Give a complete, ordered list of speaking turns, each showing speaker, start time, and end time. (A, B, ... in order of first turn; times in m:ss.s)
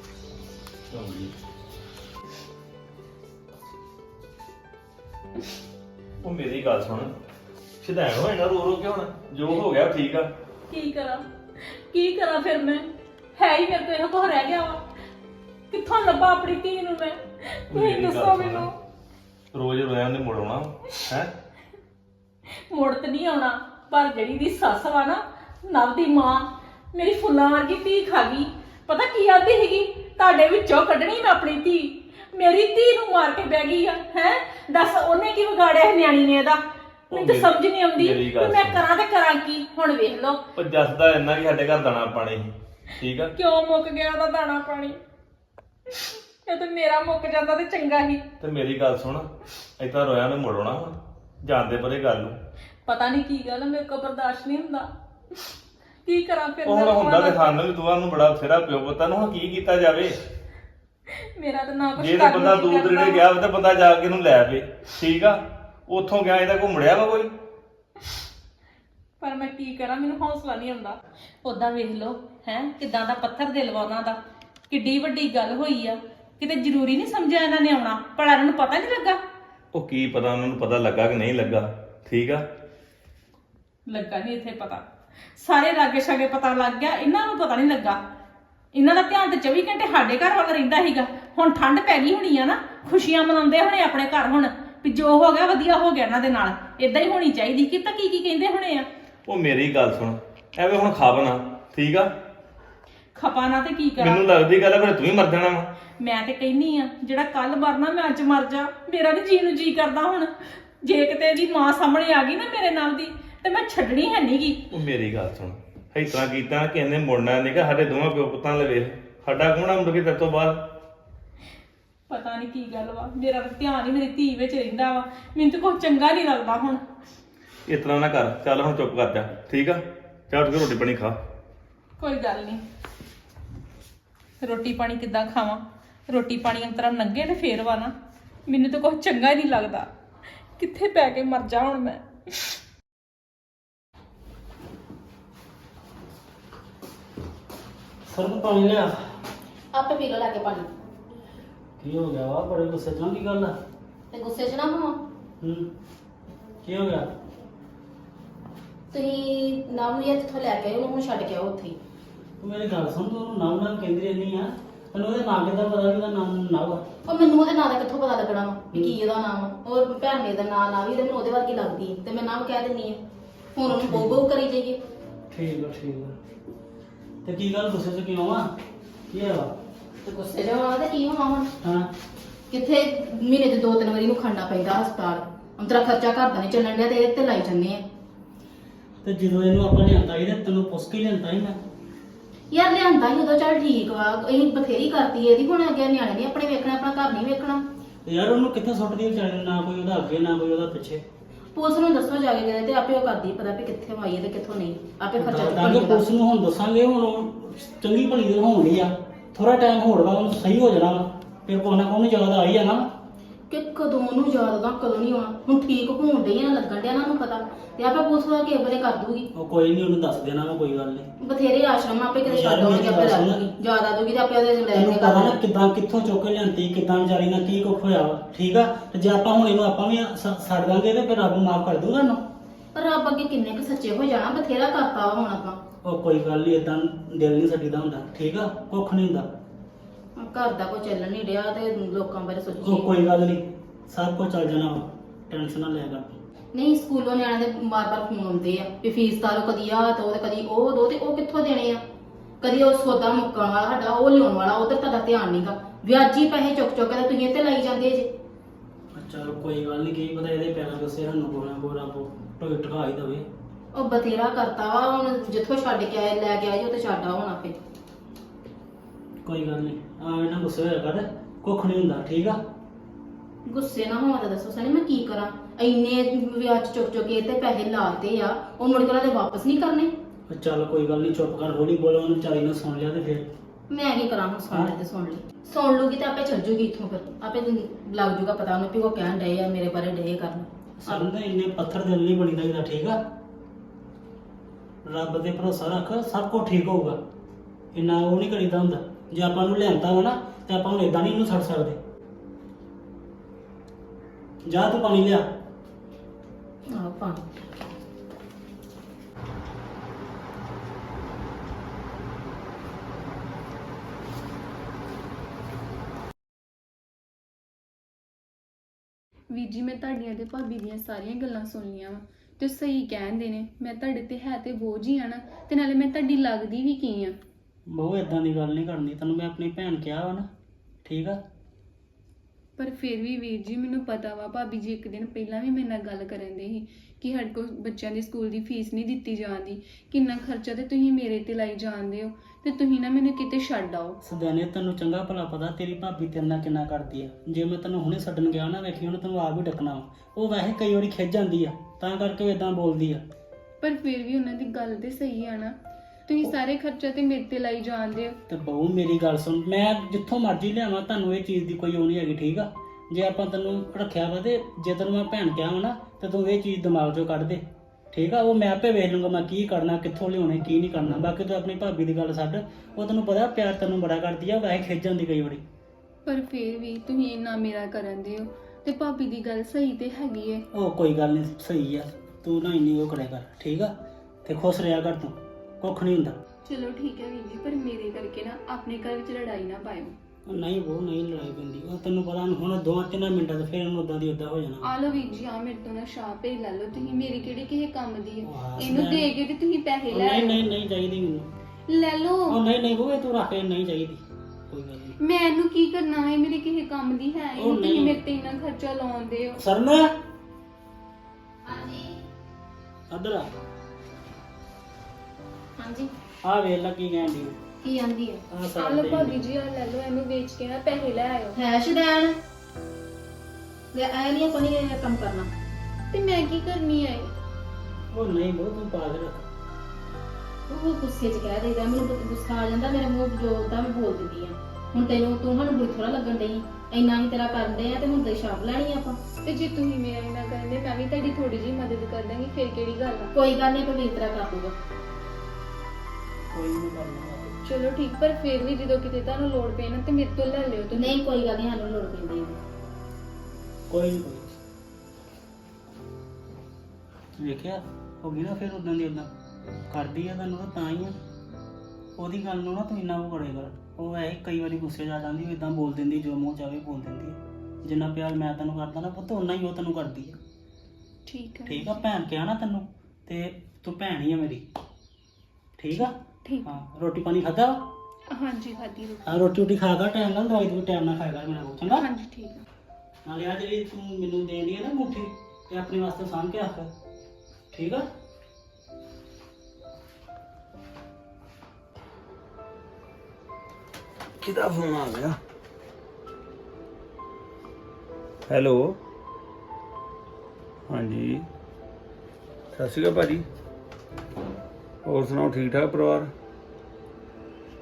0:00.9-0:01.3 A
0:06.2-0:07.1 A
0:07.8-0:10.3 A
0:10.7-0:11.2 B
0:11.9-0:12.8 B
0:13.4-0:14.8 B
0:15.7-0:18.7 B
0:17.7-0:18.7 A
0:19.5-0:21.3 A
0:22.7-0:36.6 B
0:37.1-0:38.9 A
0:37.1-0:40.4 B
0:40.6-0:43.3 A
0:43.4-0:45.0 B
0:45.9-0:48.3 B
0:48.4-0:52.4 A
0:52.8-0:54.9 B
0:56.0-0:57.6 B
0:56.6-1:00.2 A
1:01.4-1:03.3 B
1:02.0-1:07.3 A
1:09.2-1:14.2 B
1:14.7-1:19.2 B
1:19.7-1:22.4 A
1:23.9-1:24.8 B
1:25.4-1:28.0 B
1:28.7-1:38.9 B
1:39.3-1:42.1 A
1:43.1-1:44.3 B
1:44.0-1:45.7 A
1:46.0-1:50.3 B
1:50.8-1:54.6 B
1:54.7-2:00.6 A
2:02.1-2:06.8 B
2:07.7-2:11.2 A
2:12.0-2:12.6 B
2:14.4-2:17.9 B
2:18.5-2:19.9 B
2:20.6-2:22.0 B
2:28.0-2:29.1 C
2:29.7-2:30.7 D
2:31.8-2:33.6 C
2:34.1-2:35.0 D
2:35.4-2:35.7 C
2:36.6-2:37.2 C
2:38.9-2:41.8 D
2:42.4-2:46.9 C
2:47.0-2:53.0 D
2:53.5-2:54.8 D
2:53.8-2:54.1 C
2:55.3-2:56.2 C
2:57.2-2:58.6 C
2:59.1-2:59.6 C
3:00.0-3:01.5 D
3:01.6-3:01.9 C
3:02.5-3:07.9 D
3:09.0-3:11.6 C
3:12.5-3:17.7 D
3:18.0-3:21.0 C
3:21.5-3:26.1 D
3:25.2-3:32.8 C
3:33.5-3:39.3 D
3:39.3-3:41.1 C
3:41.2-3:45.5 D
3:42.3-3:43.4 C
3:44.7-3:52.3 C
3:52.7-3:55.6 D
3:55.8-3:59.4 C
4:00.2-4:03.0 D
4:02.6-4:06.2 C
4:06.5-4:11.8 D
4:12.4-4:18.1 D
4:18.9-4:23.3 C
4:23.7-4:27.6 D
4:29.2-4:32.4 C
4:33.4-4:39.9 D
4:40.3-4:43.3 C
4:43.7-4:51.1 D
4:50.9-4:53.1 C
4:54.8-4:57.0 C
4:57.7-5:01.8 C
5:04.4-5:05.3 C
5:06.7-5:07.2 D
5:19.3-5:27.2 E
5:27.7-5:30.3 C
5:30.8-5:31.2 C
5:32.6-5:44.0 E
5:44.0-5:53.0 C
5:53.6-5:55.6 E
5:56.1-5:58.2 E
5:58.3-6:15.4 C
6:16.0-6:20.4 E
6:20.5-6:26.2 C
6:26.4-6:29.9 E
6:30.2-6:34.7 C
6:34.6-6:40.4 E
6:38.2-6:39.1 C
6:39.9-6:41.3 C
6:41.7-6:42.4 E
6:42.3-6:45.0 C
6:45.0-6:49.4 E
6:47.4-6:47.9 C
6:49.4-6:49.9 C
6:51.5-6:51.8 D
6:52.9-6:53.3 C
6:55.6-6:55.9 D
6:56.2-6:57.4 C
6:57.6-6:58.2 D
6:58.3-6:59.2 C
6:58.6-7:01.4 E
7:01.3-7:02.2 D
7:03.7-7:05.3 D
7:05.9-7:07.1 E
7:07.9-7:09.3 C
7:10.5-7:19.0 D
7:19.2-7:23.1 E
7:23.1-7:24.5 D
7:26.3-7:27.4 C
7:27.4-7:30.9 E
7:30.7-7:32.4 D
7:33.7-7:34.3 C
7:37.2-7:39.1 C
7:39.7-7:41.0 C
7:42.0-7:50.2 C
7:51.0-7:51.8 E
7:51.4-7:54.5 C
7:55.6-7:57.7 C
7:55.8-7:56.5 E
7:58.1-7:59.4 E
7:59.0-8:01.8 C
8:01.6-8:02.4 E
8:03.0-8:06.7 C
8:07.5-8:07.9 C
8:14.2-8:15.2 F
8:18.3-8:18.8 F
8:20.7-8:21.2 F
8:22.5-8:23.2 F
8:24.8-8:26.1 F